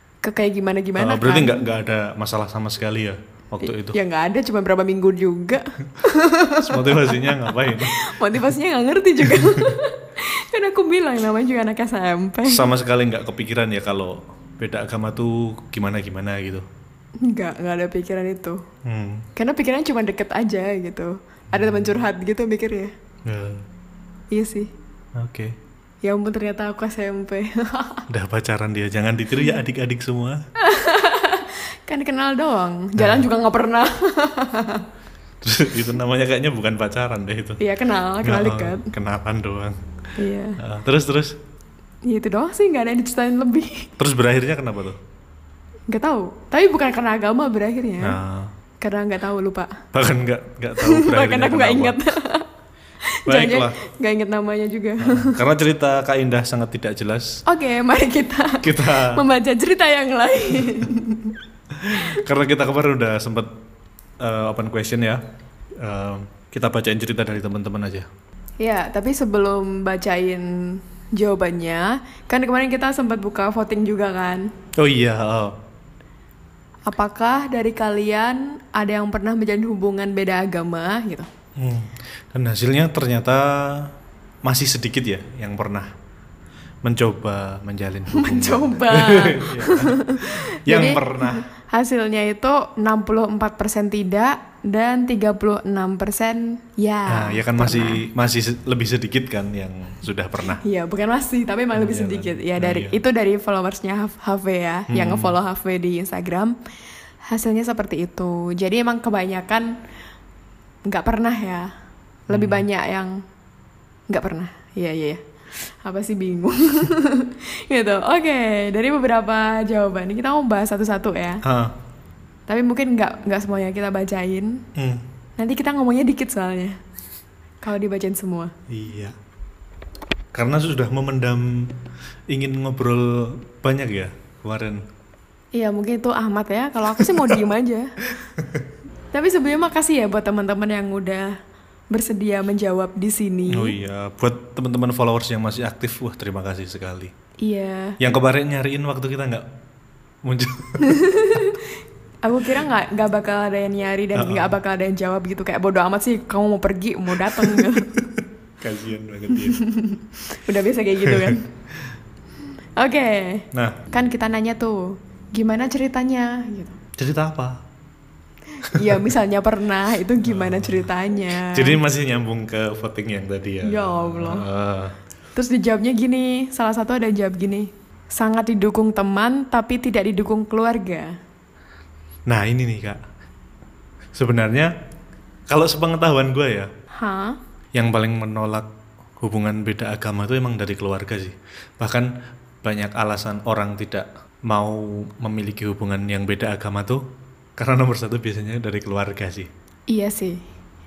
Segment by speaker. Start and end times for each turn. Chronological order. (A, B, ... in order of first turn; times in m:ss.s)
0:00.2-0:01.6 A
0:01.0-0:04.0 B
0:03.6-0:12.6 A
0:06.6-0:08.1 B
0:12.4-0:16.6 B
0:17.2-0:18.6 A
0:18.8-0:19.3 B
0:19.4-0:22.9 A
0:21.5-0:22.0 B
0:23.2-0:23.6 B
0:24.3-0:24.7 A
0:25.1-0:25.6 B
0:26.0-0:28.0 A
0:28.1-0:30.4 B
0:30.6-0:34.9 A
0:33.0-0:33.3 B
0:35.4-0:37.6 B
0:37.6-0:38.9 A
0:38.2-0:39.8 B
0:40.2-0:40.6 A
0:40.6-0:41.4 B
0:42.0-0:43.9 A
0:44.0-0:45.0 B
0:45.9-0:48.2 A
0:48.0-0:48.5 B
0:48.8-0:49.8 A
0:49.9-0:52.0 B
0:50.8-0:52.5 A
0:53.0-0:55.4 A
0:53.3-0:53.8 B
0:55.0-0:57.4 B
0:57.5-1:01.4 A
0:58.6-0:59.2 B
1:01.7-1:03.5 B
1:04.2-1:05.2 B
1:05.8-1:08.1 B
1:08.6-1:14.5 A
1:14.8-1:15.6 B
1:16.9-1:21.3 A
1:21.6-1:23.9 B
1:24.4-1:25.9 B
1:26.8-1:31.4 B
1:28.1-1:38.0 A
1:37.1-1:40.6 B
1:40.5-1:46.6 A
1:41.7-1:43.0 B
1:44.9-1:45.4 B
1:47.2-1:49.8 A
1:50.8-1:51.7 A
1:52.3-1:53.2 A
1:52.3-1:52.6 B
1:54.1-2:01.4 A
2:01.4-2:01.8 B
2:02.5-2:04.7 A
2:04.7-2:05.0 B
2:05.4-2:06.8 A
2:07.6-2:08.5 A
2:08.7-2:09.1 B
2:10.3-2:11.7 B
2:12.3-2:14.8 B
2:15.5-2:17.9 A
2:17.0-2:17.4 B
2:18.2-2:18.6 B
2:19.1-2:21.3 A
2:21.9-2:23.7 A
2:23.5-2:27.1 B
2:27.4-2:28.0 A
2:28.0-2:29.5 B
2:30.2-2:31.0 B
2:30.8-2:31.7 A
2:32.2-2:38.0 A
2:34.1-2:34.6 B
2:37.2-2:39.6 B
2:39.3-2:41.5 A
2:41.0-2:41.4 B
2:42.8-2:46.8 A
2:43.5-2:43.8 B
2:47.0-2:47.6 B
2:48.6-2:51.8 A
2:48.7-2:48.9 B
2:50.2-2:54.9 B
2:53.6-2:54.5 A
2:55.3-3:01.1 A
3:02.3-3:03.0 B
3:04.1-3:04.7 B
3:05.5-3:06.7 B
3:06.9-3:07.4 A
3:07.7-3:08.7 B
3:09.2-3:12.1 B
3:12.6-3:17.0 B
3:17.6-3:19.5 B
3:19.9-3:20.4 A